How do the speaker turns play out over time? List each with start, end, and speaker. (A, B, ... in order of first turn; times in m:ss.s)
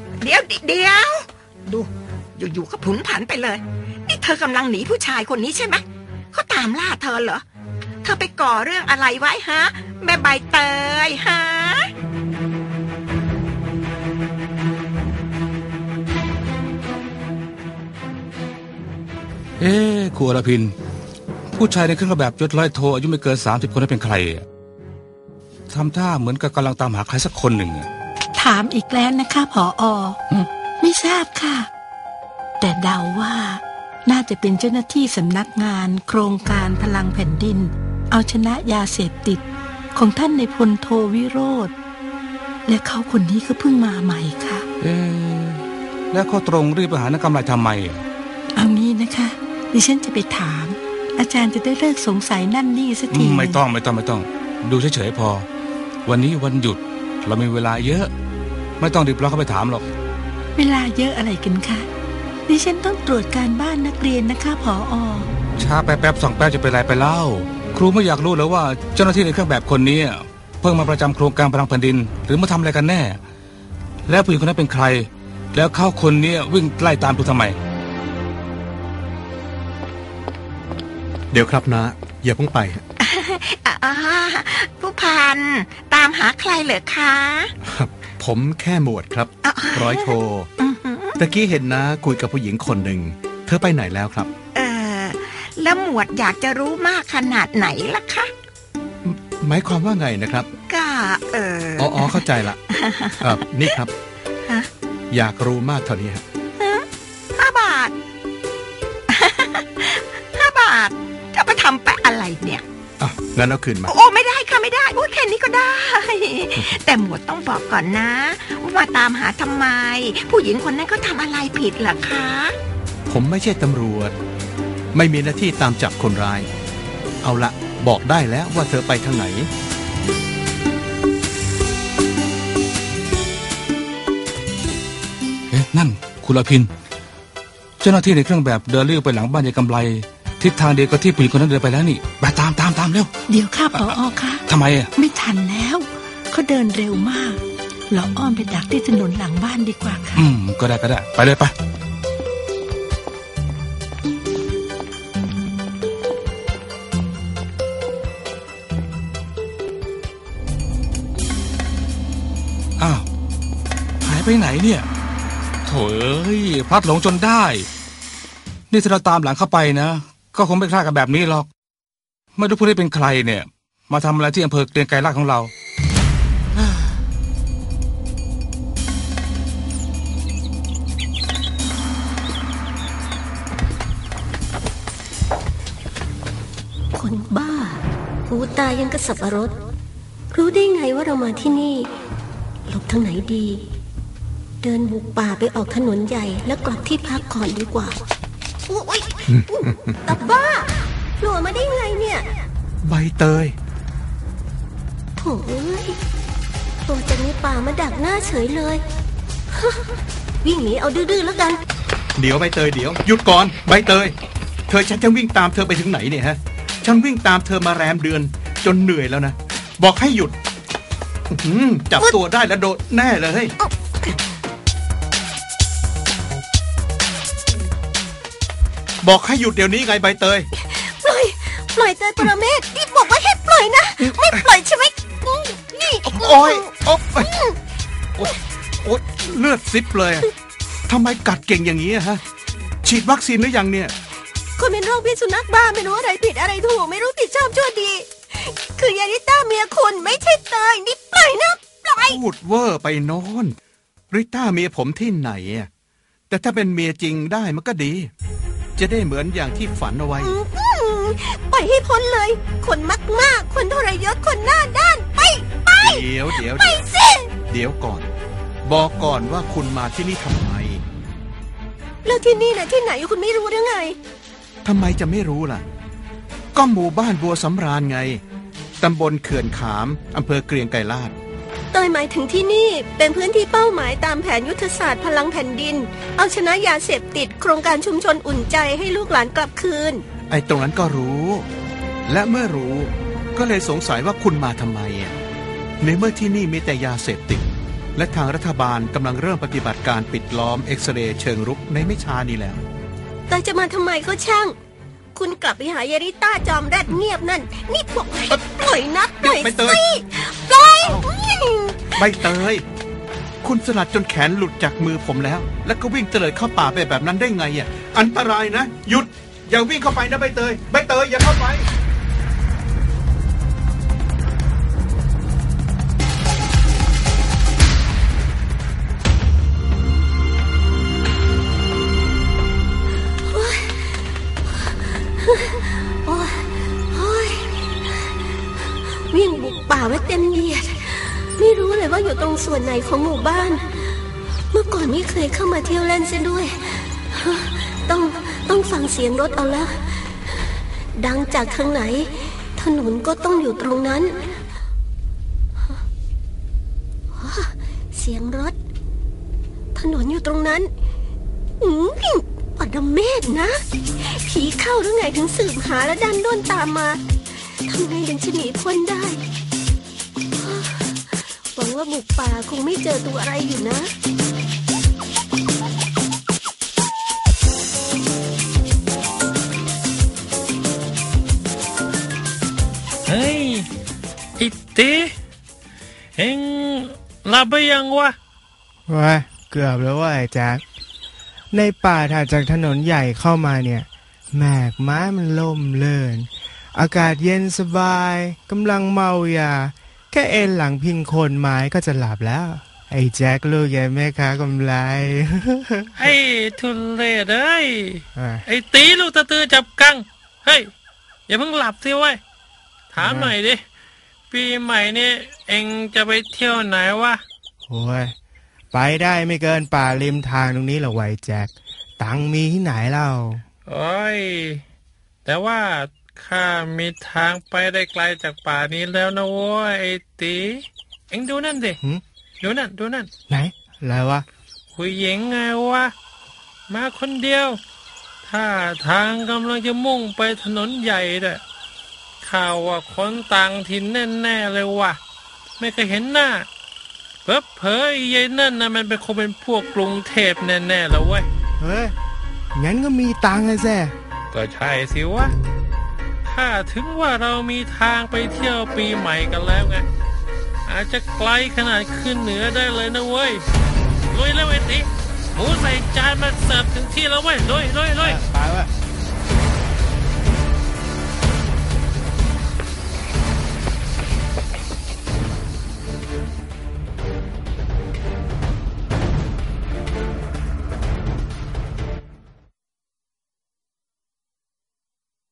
0:00.2-0:07.4 A
0:08.0-0:11.9 A
0:19.6-0:20.7 B
0:21.5-0:24.4 B
0:25.7-0:27.9 B
0:28.4-0:30.2 C
0:30.8-0:31.7 C
0:32.6-0:41.7 C
0:42.7-0:44.6 C
0:44.8-0:48.0 B
0:48.6-0:53.6 C
0:53.1-0:55.5 B
0:56.1-0:58.1 B
0:58.8-0:59.9 B
1:00.6-1:01.9 C
1:02.5-1:05.3 C
1:05.6-1:13.2 B
1:14.1-1:17.6 B
1:21.3-1:22.8 D
1:23.0-1:27.5 A
1:27.6-1:30.5 D
1:29.4-1:31.2 A
1:31.2-1:34.3 D
1:34.5-1:38.3 A
1:39.0-1:40.5 D
1:40.7-1:43.8 A
1:41.8-1:42.6 D
1:43.2-1:43.9 D
1:45.1-1:46.2 D
1:46.6-1:46.9 A
1:47.4-1:47.9 A
1:49.1-1:52.6 A
1:53.0-1:53.9 D
1:53.9-2:02.6 A
2:03.1-2:04.1 D
2:04.9-2:06.5 D
2:07.2-2:09.5 D
2:15.5-2:16.7 B
2:17.8-2:23.1 B
2:23.3-2:30.3 C
2:24.5-2:24.9 B
2:30.2-2:31.5 B
2:42.8-2:43.0 B
2:44.0-2:44.9 B
2:45.7-2:47.7 B
2:48.7-2:51.5 B
2:52.4-2:55.5 B
3:07.0-3:09.6 E
3:10.3-3:11.9 E
3:12.7-3:13.6 E
3:14.6-3:18.0 E
3:18.7-3:22.5 E
3:19.3-3:20.0 D
3:22.8-3:23.6 D
3:25.2-3:26.0 E
3:26.9-3:28.8 E
3:29.5-3:31.6 E
3:32.2-3:34.1 D
3:34.7-3:40.3 D
3:41.3-3:43.5 D
3:43.6-3:44.1 E
3:49.0-3:50.5 D
3:50.6-3:57.6 E
3:56.1-3:57.3 D
3:58.2-4:00.3 D
4:00.9-4:02.2 D
4:02.8-4:03.9 D
4:04.6-4:12.2 E
4:12.1-4:13.6 D
4:14.1-4:15.7 D
4:16.3-4:18.1 D
4:18.8-4:20.3 D
4:20.2-4:27.3 E
4:25.8-4:26.8 D
4:27.5-4:28.1 D
4:28.6-4:30.8 D
4:32.0-4:34.0 E
4:34.6-4:35.6 D
4:36.5-4:38.2 D
4:38.8-4:41.1 D
4:41.7-4:50.0 E
4:50.3-4:51.5 D
4:52.1-4:55.1 D
4:55.8-5:02.6 D
5:03.3-5:04.6 E
5:05.2-5:12.4 E
5:09.2-5:09.8 D
5:12.0-5:12.6 D
5:13.4-5:21.7 D
5:33.3-5:34.0 E
5:34.5-5:38.2 E
5:39.1-5:43.8 E
5:44.5-5:50.4 E
5:51.0-5:54.3 E
5:57.1-5:58.6 E
5:59.8-6:00.7 E
6:01.6-6:07.0 E
6:07.6-6:09.2 E
6:10.4-6:13.9 E
6:23.1-6:23.7 F
6:24.4-6:25.1 F
6:26.2-6:28.2 F
6:28.9-6:30.6 G
6:31.5-6:46.1 G
6:46.0-6:50.7 F
6:48.2-6:48.4 G
6:51.3-6:52.2 F
6:52.9-6:53.6 F
6:53.0-6:53.3 G
6:54.3-6:57.2 F
6:57.7-6:58.2 G
6:58.7-7:03.4 G
7:03.7-7:04.6 F
7:05.2-7:11.8 F
7:12.4-7:13.1 F
7:13.3-7:14.2 G
7:14.8-7:15.9 F
7:16.7-7:17.6 F
7:18.2-7:21.4 F
7:22.2-7:25.0 F
7:25.6-7:26.5 F
7:27.2-7:31.3 F
7:31.6-7:31.9 G
7:32.6-7:33.9 G
7:34.3-7:35.3 F
7:36.2-7:39.8 F
7:40.7-7:43.4 F
7:44.1-7:48.2 F
7:48.0-7:48.7 G